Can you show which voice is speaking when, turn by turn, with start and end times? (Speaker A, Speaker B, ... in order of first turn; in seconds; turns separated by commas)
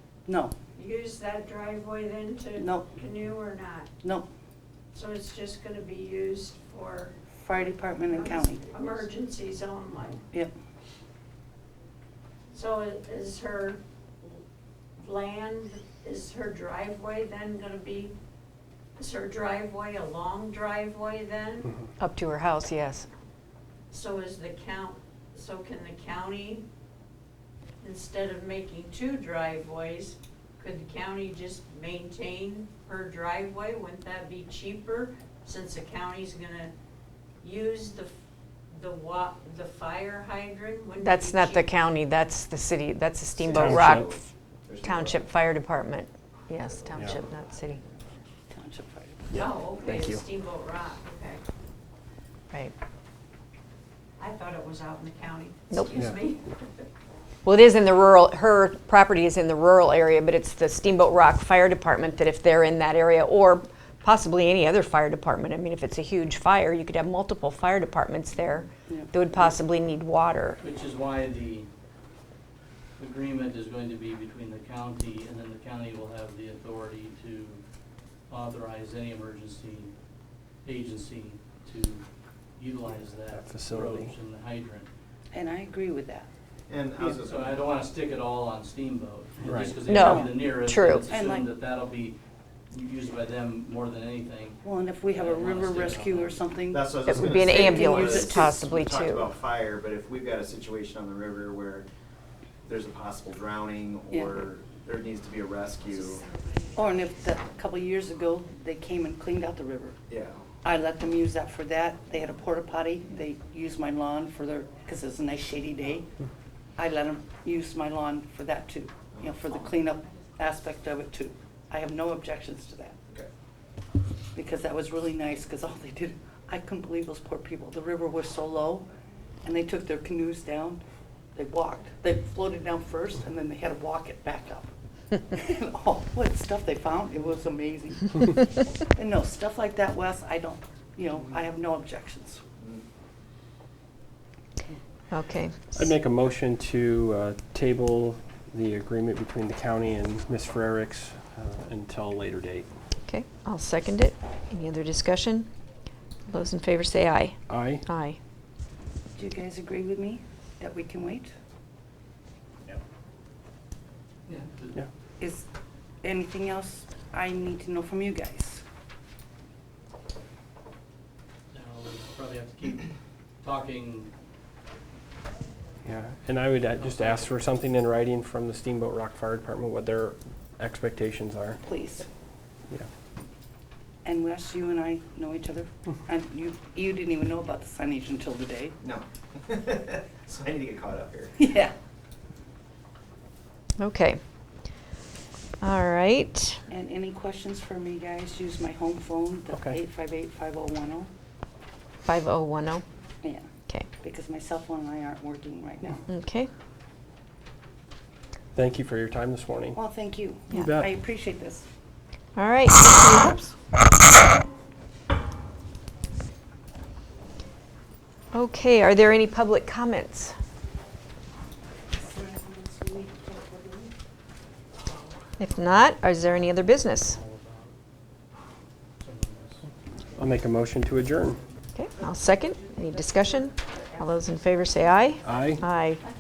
Speaker A: 0.3-0.5, Speaker B: 0.8-3.9, Speaker A: 2.6-2.9, Speaker A: 4.0-4.3, Speaker B: 4.9-7.1, Speaker A: 7.4-8.7, Speaker B: 8.1-10.2, Speaker B: 12.5-14.4, Speaker B: 15.0-18.1, Speaker B: 19.0-21.8, Speaker C: 22.0-23.1, Speaker B: 23.9-26.6, Speaker B: 27.8-36.7, Speaker B: 37.4-38.1, Speaker B: 38.7-41.7, Speaker C: 41.0-44.2, Speaker D: 43.4-45.1, Speaker E: 43.5-44.1, Speaker C: 44.8-47.8, Speaker A: 48.5-49.3, Speaker E: 49.3-50.2, Speaker B: 49.3-51.4, Speaker B: 54.2-56.6, Speaker C: 57.5-70.6, Speaker A: 68.9-69.6, Speaker F: 70.6-71.7, Speaker F: 73.0-77.6, Speaker F: 78.3-79.9, Speaker F: 80.6-82.0, Speaker F: 82.6-84.9, Speaker E: 83.3-84.1, Speaker A: 85.3-86.3, Speaker D: 86.7-87.6, Speaker F: 87.0-92.2, Speaker E: 89.5-89.8, Speaker C: 89.9-91.1, Speaker A: 90.0-90.5, Speaker A: 91.1-91.5, Speaker F: 92.7-96.4, Speaker A: 94.6-98.6, Speaker D: 96.7-101.9, Speaker C: 97.0-99.3, Speaker D: 102.7-106.2, Speaker A: 104.1-104.4, Speaker A: 106.7-110.0, Speaker D: 110.1-110.6, Speaker A: 110.6-116.1, Speaker A: 116.8-123.0, Speaker A: 124.3-128.9, Speaker A: 129.4-130.8, Speaker A: 131.3-142.4, Speaker C: 145.1-145.9, Speaker E: 145.8-152.7, Speaker C: 153.1-155.5, Speaker C: 156.3-158.2, Speaker E: 157.5-157.8, Speaker A: 159.2-161.3, Speaker F: 164.3-164.8, Speaker A: 165.2-165.4, Speaker A: 166.0-168.6, Speaker F: 171.5-172.9, Speaker F: 173.4-174.1, Speaker E: 175.8-181.6, Speaker F: 176.8-177.3, Speaker A: 181.6-182.1, Speaker A: 184.1-188.8, Speaker D: 188.8-191.5, Speaker A: 191.4-191.7, Speaker C: 193.8-194.2, Speaker C: 195.6-196.6, Speaker A: 196.7-201.1, Speaker E: 199.5-199.8, Speaker C: 202.1-202.8, Speaker A: 203.2-206.0, Speaker C: 206.1-206.5, Speaker E: 208.6-209.8, Speaker A: 209.8-211.7, Speaker E: 210.5-210.9, Speaker C: 212.4-213.4, Speaker C: 218.3-220.3, Speaker A: 221.9-223.9, Speaker C: 225.4-227.2, Speaker F: 226.3-227.8, Speaker F: 229.0-229.7, Speaker E: 230.2-231.4, Speaker C: 231.8-236.0, Speaker E: 235.2-235.6